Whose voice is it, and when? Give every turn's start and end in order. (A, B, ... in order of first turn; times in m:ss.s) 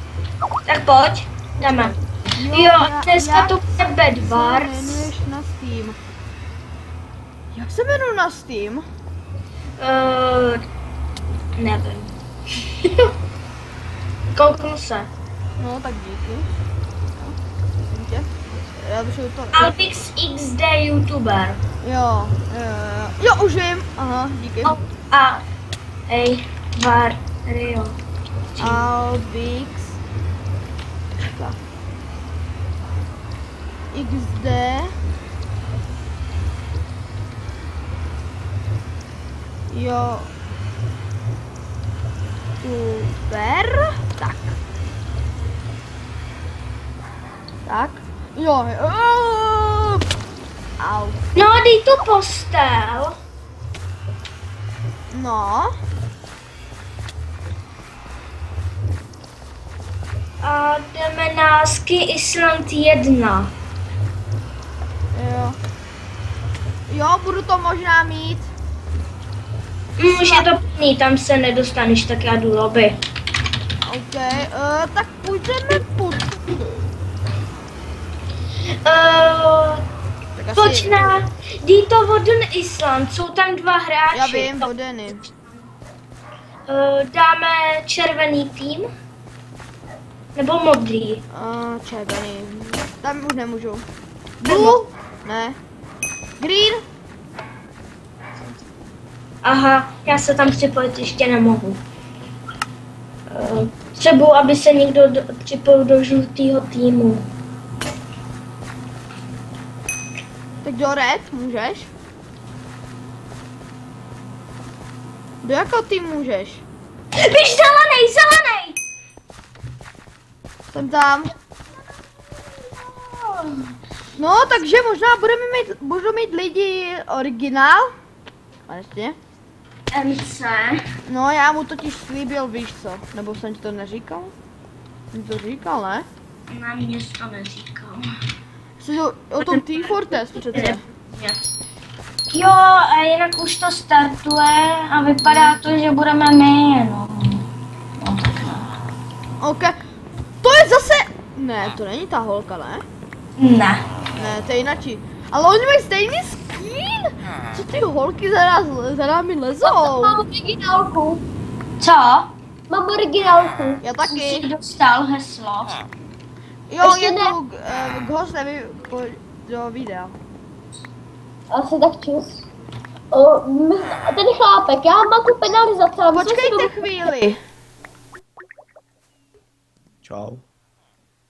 0:00.7-0:02.0 A
0:01.6-0:06.0 B
0:02.5-0:05.1 A
0:07.5-0:08.8 B
0:09.8-0:10.6 A
0:11.6-0:13.1 A
0:14.4-0:15.1 A
0:15.6-0:16.5 B
0:17.9-0:19.7 B
0:19.5-0:21.6 A
0:21.8-0:24.8 B
0:24.6-0:25.4 A
0:26.1-0:28.0 A
0:28.5-0:28.9 A
0:28.6-0:30.0 B
0:31.2-0:31.6 B
0:33.9-0:34.9 B
0:39.7-0:40.3 B
0:42.6-0:44.6 B
0:47.7-0:50.0 B
0:50.8-0:51.2 B
0:51.4-0:53.2 A
0:55.1-0:55.7 B
1:00.4-1:03.5 A
1:05.1-1:05.6 B
1:06.9-1:08.5 B
1:10.0-1:13.0 A
1:10.1-1:10.5 B
1:13.8-1:16.8 B
1:18.8-1:19.8 A
1:20.4-1:21.1 B
1:20.6-1:24.7 A
1:24.1-1:25.2 B
1:26.7-1:28.9 A
1:30.4-1:31.2 A
1:31.3-1:33.8 B
1:34.4-1:34.9 A
1:34.4-1:35.6 B
1:36.4-1:36.8 B
1:39.4-1:41.8 A
1:43.3-1:47.3 A
1:50.6-1:51.9 B
1:55.4-1:56.6 B
1:57.2-1:58.8 A
2:00.7-2:01.3 B
2:02.6-2:03.6 A
2:04.2-2:07.9 B
2:08.7-2:09.2 B
2:09.9-2:10.8 A
2:11.1-2:14.3 B
2:15.1-2:16.1 B
2:16.5-2:18.0 A
2:18.8-2:20.8 B
2:19.4-2:21.4 A
2:22.3-2:27.5 A
2:25.2-2:25.6 B
2:28.0-2:28.7 A
2:29.4-2:29.7 B
2:30.4-2:32.8 B
2:33.4-2:33.8 A
2:34.2-2:40.2 B
2:39.6-2:41.2 C
2:41.8-2:42.3 A
2:42.7-2:43.8 C
2:43.8-2:44.5 B
2:44.0-2:45.8 A
2:46.7-2:50.2 B
2:46.8-2:47.4 C
2:51.5-2:52.4 C
2:53.1-2:56.7 C
2:56.1-2:57.4 B